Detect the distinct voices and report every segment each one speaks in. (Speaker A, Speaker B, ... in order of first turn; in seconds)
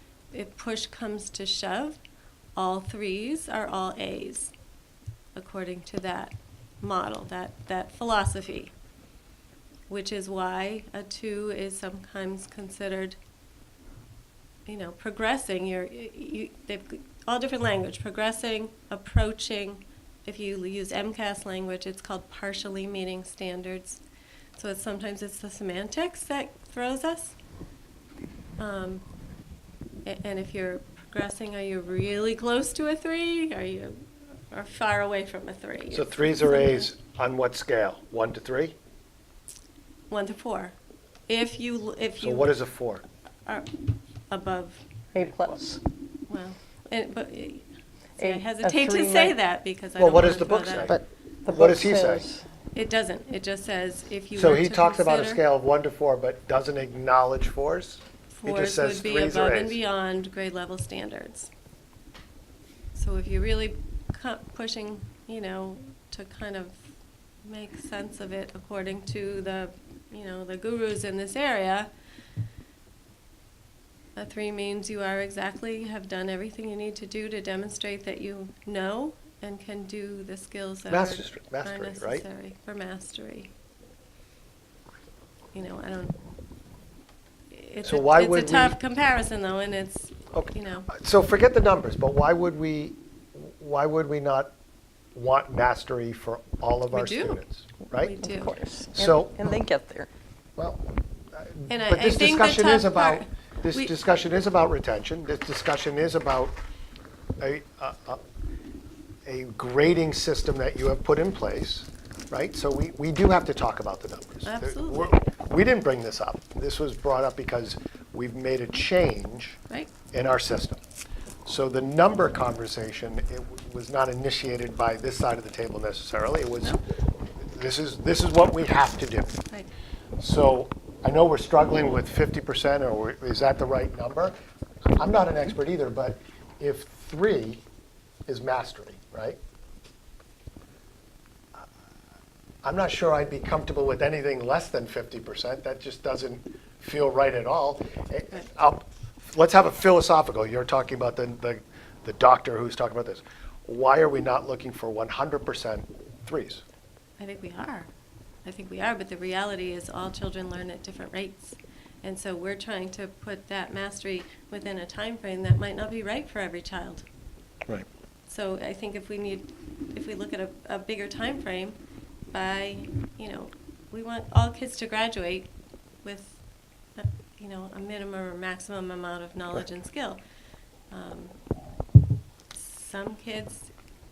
Speaker A: 0.3-2.0, 2.6-4.5, 5.4-8.7, 9.9-13.2, 14.7-24.0, 24.6-27.4, 28.6-29.0, 30.1-36.9, 40.1-40.8, 41.3-42.5, 44.3-44.9, 46.3-47.6, 48.2-50.9, 52.7-55.4, 58.3-61.5, 62.9-66.9, 67.4-71.9, 74.2-83.5, 85.5-86.2, 87.5-90.9, 96.9-97.4, 98.0-98.5, 101.7-103.9, 114.5-115.2, 157.2-157.9, 158.4-167.1, 168.3-171.8, 172.3-175.5, 176.0-176.4, 177.0-180.2, 180.9-181.4, 182.5-183.7
Speaker B: 35.9-38.8, 42.2-43.0, 50.0-52.2, 54.4-59.8, 80.9-82.2, 87.8-88.8, 90.3-94.5, 95.2-98.2, 99.0-99.6, 100.6-100.8, 101.3-106.6, 107.4-108.2, 109.3-119.6, 120.1-120.8, 121.5-126.8, 127.4-129.4, 130.2-134.3, 134.9-137.6, 138.3-139.4, 142.6-156.6
Speaker C: 45.1-45.8, 48.2-49.4, 50.8-52.4, 98.1-100.1